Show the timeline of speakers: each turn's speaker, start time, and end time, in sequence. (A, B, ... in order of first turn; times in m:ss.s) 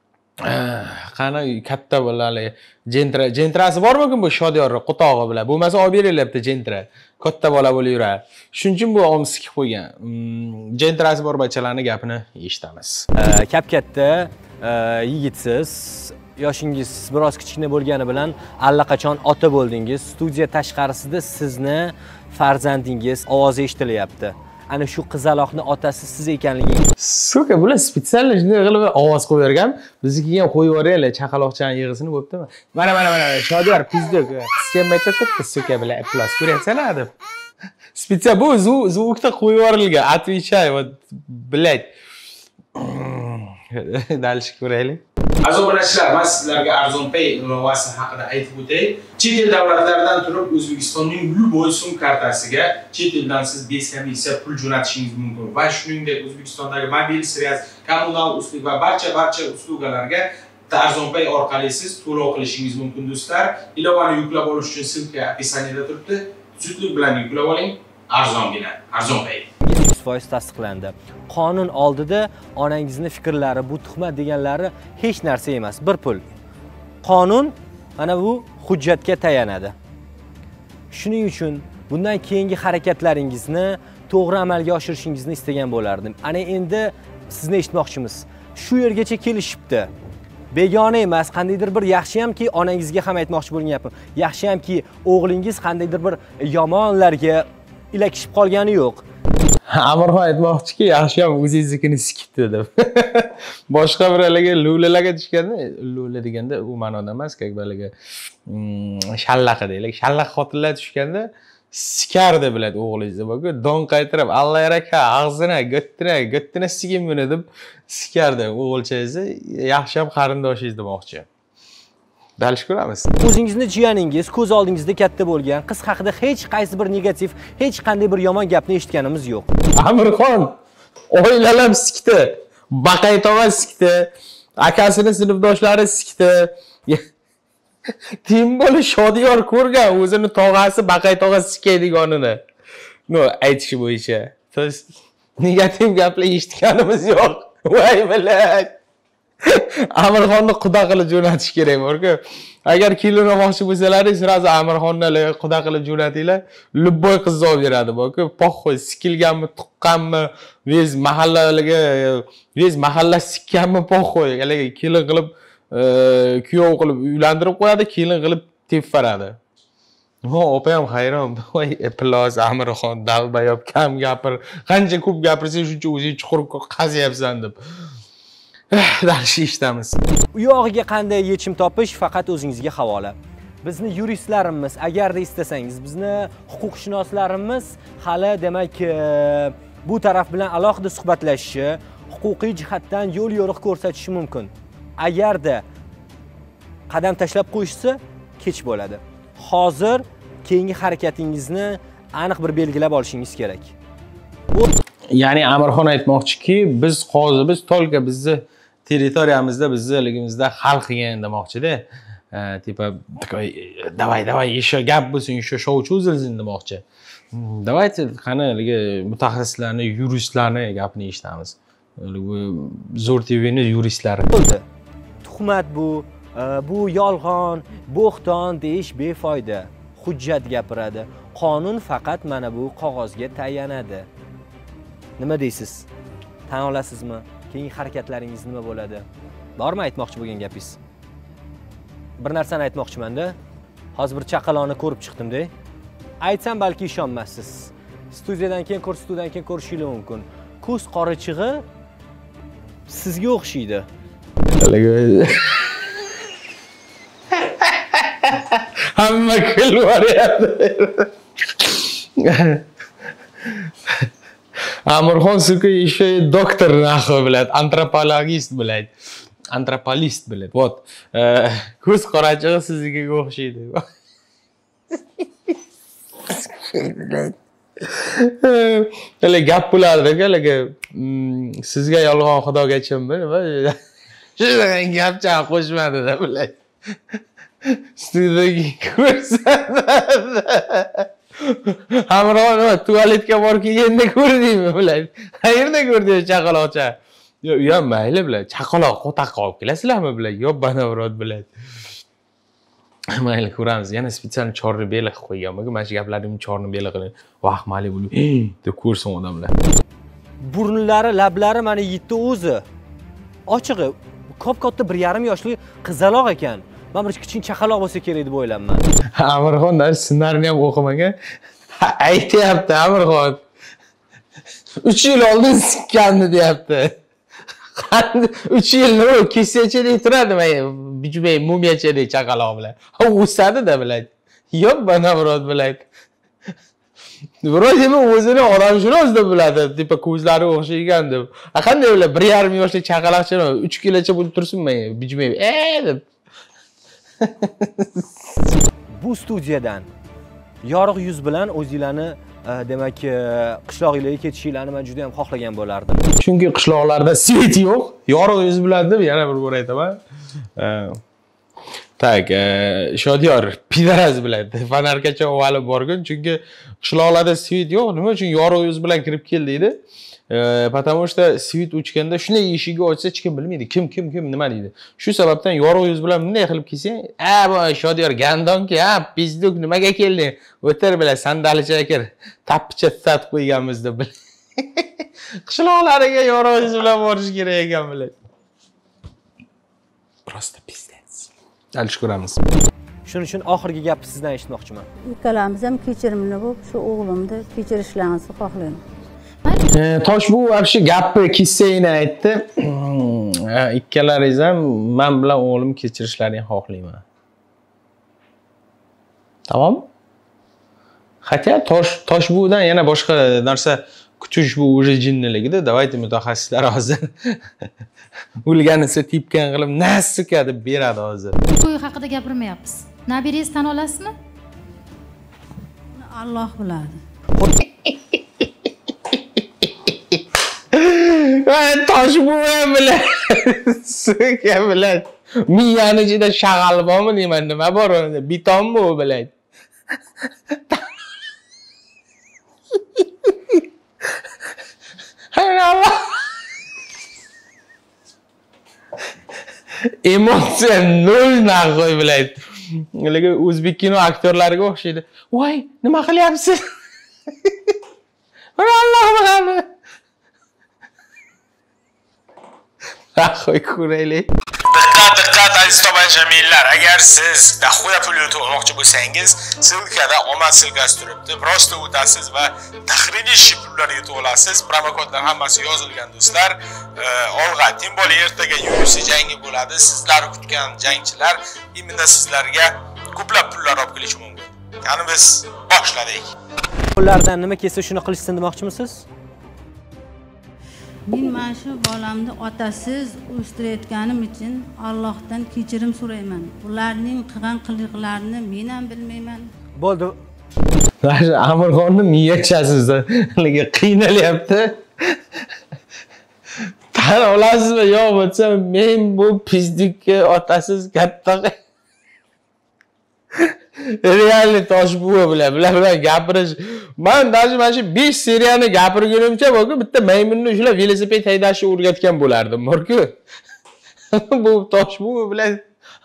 0:00.4-0:13.1 A
0:13.2-0:26.9 B
0:27.0-0:37.1 A
0:37.9-0:41.9 A
0:42.8-1:09.5 A
1:09.6-1:16.2 B
1:17.0-1:19.8 B
1:20.9-1:29.9 B
1:30.5-1:39.0 B
1:39.7-1:47.9 A
1:48.5-2:01.3 A
2:02.4-2:03.1 A
2:03.2-2:09.5 B
2:09.8-2:10.6 A
2:11.1-2:17.0 A
2:18.2-2:22.4 A
2:23.1-2:28.8 A
2:29.4-2:49.4 A
2:50.2-2:57.6 A
2:58.7-3:00.0 A
3:00.3-3:15.6 B
3:16.9-3:23.7 B
3:25.1-3:44.3 A
3:44.3-3:44.6 B
3:45.2-3:54.1 B
3:55.2-3:55.9 B
3:56.5-3:59.1 B
3:59.6-4:00.8 B
4:02.2-4:03.4 B
4:04.0-4:05.5 B
4:06.2-4:11.7 B
4:12.9-4:13.9 B
4:14.6-4:16.0 A
4:17.4-4:22.6 A
4:23.4-4:24.1 A
4:24.9-4:28.9 A
4:29.5-4:33.9 A
4:36.3-4:43.8 A
4:44.4-4:46.6 A
4:47.1-5:01.5 A
5:03.1-5:09.5 A
5:10.4-5:12.6 B
5:13.5-5:18.9 B
5:19.1-5:21.2 A
5:21.8-5:23.4 A
5:24.8-5:27.0 A
5:27.8-5:35.9 A
5:37.4-5:46.0 A
5:47.2-5:48.1 A
5:49.0-5:49.9 B
5:50.6-5:56.0 B
5:56.2-6:00.0 A
6:00.6-6:01.0 A
6:02.0-6:24.9 A
6:25.4-6:28.2 A
6:30.3-6:32.4 A
6:33.1-6:34.9 B
6:35.1-6:38.8 C
6:39.7-6:47.0 A
6:49.5-6:49.9 A
6:51.2-6:57.4 A
6:58.4-7:01.4 A
7:01.5-7:04.2 D
7:06.0-7:07.0 C
7:10.7-7:19.3 A
7:23.0-7:23.6 A
7:25.3-7:26.2 A
7:29.9-7:36.6 A
7:37.5-7:37.7 A
7:38.6-7:39.7 A
7:43.2-8:06.3 A
8:07.0-8:09.0 B
8:11.1-8:19.5 C
8:19.8-8:20.2 B
8:21.0-8:25.2 A
8:26.9-8:31.6 A
8:33.4-8:43.2 A
8:44.1-8:45.6 A